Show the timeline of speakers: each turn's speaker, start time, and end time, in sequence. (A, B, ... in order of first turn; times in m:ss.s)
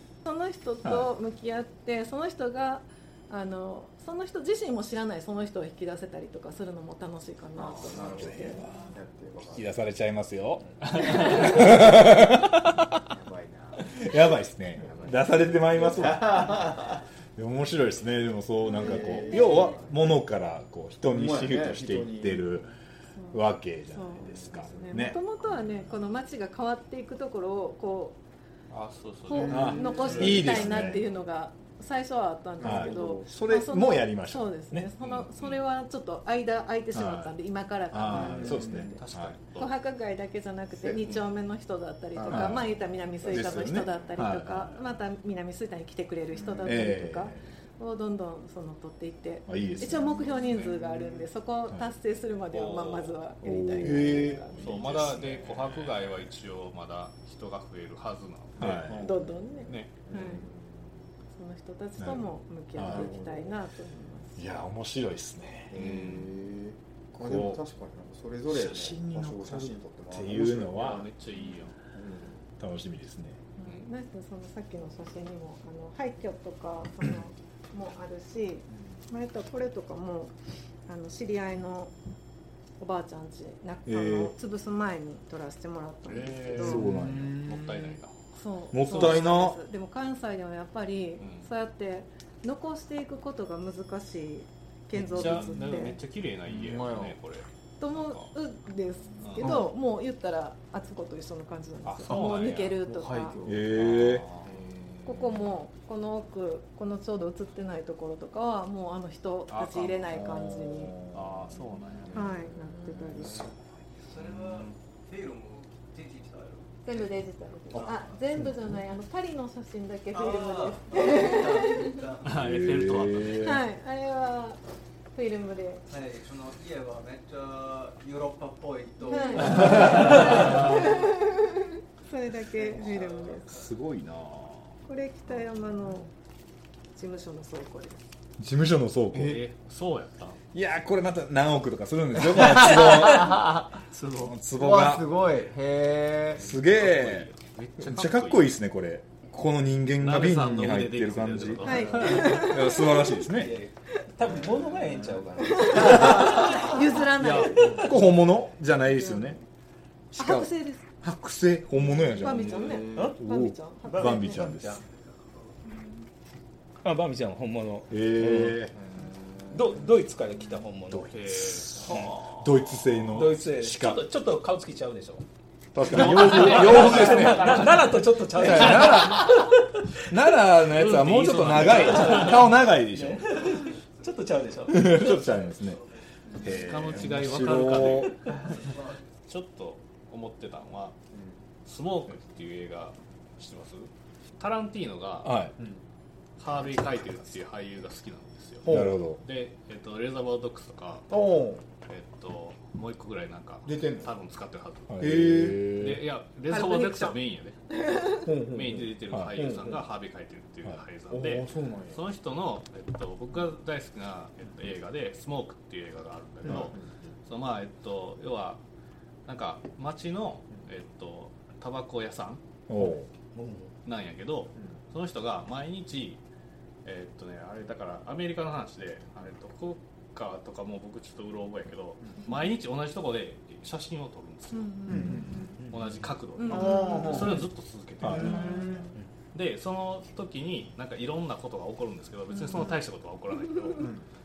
0:00.2-0:08.6 A
0:07.6-0:09.7 B
0:07.6-0:07.9 C
0:08.1-0:08.9 D
0:09.5-0:13.0 D
0:11.0-0:11.3 A
0:11.3-0:12.0 B
0:13.1-0:14.0 B
0:13.9-0:16.7 D
0:14.8-0:17.0 B
0:17.4-0:22.8 D
0:18.7-0:19.9 B
0:19.2-0:19.8 A
0:21.1-0:22.6 B
0:23.3-0:25.2 D
0:23.9-0:28.2 A
0:24.4-0:25.1 B
0:28.7-0:30.8 C
0:29.3-0:39.0 A
0:29.3-0:31.0 B
0:29.5-0:31.0 D
0:32.6-0:33.3 B
0:32.6-0:34.9 D
0:35.0-0:35.6 C
0:36.9-0:37.4 D
0:37.9-0:39.4 D
0:38.1-0:39.0 B
0:39.0-0:39.7 C
0:39.6-0:54.7 A
0:42.2-0:44.0 B
0:42.3-0:42.7 D
0:43.3-0:44.8 D
0:46.4-0:46.8 B
0:46.6-0:47.4 D
0:49.5-0:50.4 D
0:50.0-0:51.3 B
0:52.5-0:53.2 C
0:53.4-0:56.3 D
0:53.8-0:54.4 B
0:54.6-0:59.0 C
0:58.6-0:59.2 D
0:58.6-0:59.4 B
0:59.0-1:00.4 A
0:59.7-1:00.0 C
1:00.0-1:00.8 B
1:01.4-1:04.6 A
1:02.0-1:03.1 D
1:02.8-1:03.5 B
1:04.4-1:05.8 D
1:05.7-1:11.1 B
1:05.7-1:06.3 C
1:07.2-1:07.6 D
1:08.5-1:11.1 D
1:10.7-1:11.8 C
1:11.9-1:12.4 B
1:12.6-1:13.4 D
1:13.6-1:20.4 A
1:20.9-1:21.9 A
1:22.8-1:26.8 A
1:23.9-1:24.3 D
1:26.1-1:28.1 C
1:26.6-1:27.4 D
1:26.7-1:28.0 B
1:28.4-1:36.0 A
1:28.7-1:29.6 D
1:28.9-1:29.2 C
1:31.2-1:31.5 C
1:35.1-1:35.9 B
1:35.1-1:38.3 C
1:36.4-1:37.2 B
1:37.8-1:43.4 A
1:39.2-1:39.6 C
1:39.4-1:39.7 B
1:41.8-1:42.8 C
1:42.8-1:45.5 B
1:43.4-1:44.2 D
1:44.0-1:44.6 C
1:45.1-1:51.0 A
1:49.5-1:50.1 C
1:50.1-1:53.5 B
1:51.1-1:52.3 C
1:52.1-1:53.5 A
1:54.0-1:57.1 E
1:54.3-1:54.8 C
1:56.8-2:02.0 A
1:57.9-1:58.2 E
2:00.1-2:02.6 E
2:02.2-2:03.5 C
2:02.4-2:03.6 D
2:03.3-2:04.6 A
2:05.1-2:05.8 A
2:05.9-2:11.0 E
2:09.1-2:13.5 A
2:12.6-2:13.7 E
2:13.5-2:14.7 D
2:14.9-2:16.1 A
2:17.0-2:18.0 A
2:18.4-2:19.4 D
2:19.1-2:20.4 C
2:20.5-2:23.5 D
2:23.2-2:23.6 B
2:23.9-2:24.4 C
2:24.2-2:25.1 D
2:24.5-2:26.5 B
2:26.4-2:33.6 D
2:26.4-2:28.5 C
2:30.0-2:32.4 C
2:31.6-2:32.1 B
2:31.6-2:33.2 A
2:33.4-2:36.8 F
2:34.3-2:35.2 B
2:35.5-2:37.9 A
2:37.2-2:37.9 C
2:37.8-2:39.4 D
2:38.9-2:39.4 A
2:40.1-2:44.8 D
2:40.2-2:40.9 A
2:42.1-2:44.4 A
2:42.4-2:43.1 B
2:43.8-2:44.8 F
2:46.8-2:48.6 F
2:47.9-2:48.7 D
2:48.7-2:49.8 B
2:49.5-2:51.1 F
2:50.9-2:54.0 D
2:51.1-2:52.5 C
2:51.9-2:52.2 F
2:53.1-2:55.2 F
2:55.7-2:57.7 D
2:55.9-2:59.7 F
2:55.9-2:58.0 C
2:58.3-3:03.3 D
3:00.6-3:02.5 C
3:01.5-3:05.3 F
3:03.3-3:06.0 E
3:04.7-3:05.8 D
3:06.4-3:08.1 D
3:06.4-3:08.5 C
3:08.6-3:09.0 E
3:09.3-3:11.0 C
3:11.1-3:11.4 B
3:11.6-3:15.3 C
3:15.2-3:15.6 D
3:16.4-3:21.3 C
3:18.6-3:19.0 B
3:18.6-3:19.2 D
3:21.1-3:21.6 B
3:21.9-3:27.6 C
3:23.7-3:24.1 B
3:24.9-3:26.0 D
3:25.0-3:25.7 B
3:26.5-3:27.2 A
3:27.7-3:28.2 A
3:28.2-3:29.8 B
3:28.5-3:38.6 C
3:29.1-3:29.4 D
3:31.1-3:32.0 B
3:36.4-3:36.9 B
3:39.3-3:42.4 C
3:42.7-3:43.1 D
3:42.8-3:43.7 F
3:43.8-3:46.2 C
3:46.8-3:54.9 C
3:54.5-3:55.4 A
3:54.9-3:55.6 B
3:54.9-3:55.5 D
3:55.5-3:56.1 F
3:55.7-3:58.8 C
3:56.4-3:57.3 A
3:56.5-3:57.5 B
3:58.0-3:58.7 D
3:58.0-3:58.9 B
3:58.3-3:58.7 A
3:59.3-4:03.9 C
4:02.3-4:02.8 A
4:03.8-4:04.0 B